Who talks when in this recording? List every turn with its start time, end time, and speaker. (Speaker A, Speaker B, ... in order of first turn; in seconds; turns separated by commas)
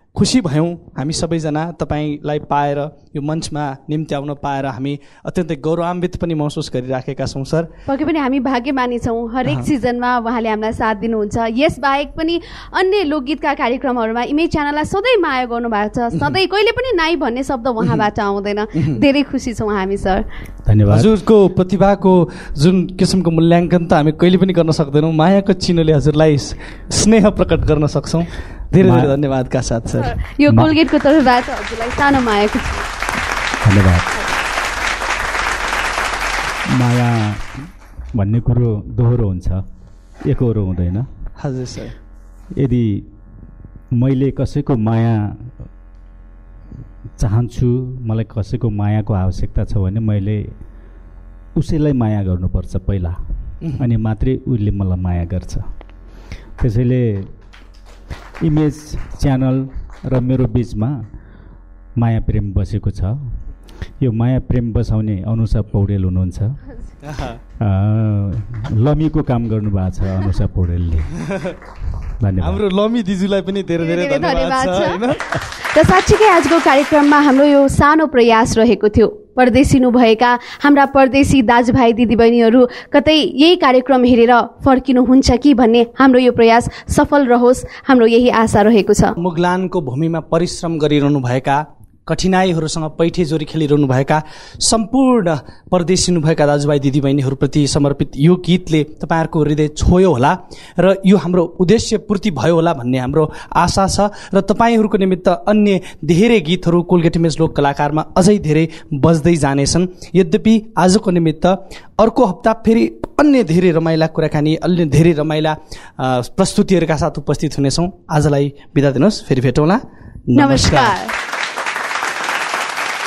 Speaker A: 0.1-7.7, Speaker B: 7.9-20.3, Speaker C: 20.7-21.1, Speaker A: 20.9-30.1, Speaker C: 28.8-29.2, Speaker B: 30.0-32.9, Speaker C: 33.6-34.1, Speaker C: 36.7-37.5, Speaker C: 38.1-39.6, Speaker C: 40.2-41.1, Speaker A: 41.4-41.9, Speaker C: 42.6-43.1, Speaker C: 43.9-45.5, Speaker C: 47.2-50.5, Speaker C: 51.6-53.2, Speaker A: 53.6-53.9, Speaker C: 53.8-55.7, Speaker C: 56.6-57.3, Speaker C: 58.4-61.0, Speaker C: 62.0-63.2, Speaker C: 64.0-66.6, Speaker A: 67.1-67.4, Speaker C: 67.6-71.1, Speaker C: 72.2-72.6, Speaker A: 72.4-75.4, Speaker B: 73.8-75.1, Speaker B: 75.7-89.1, Speaker A: 89.2-121.0, Speaker B: 120.3-121.1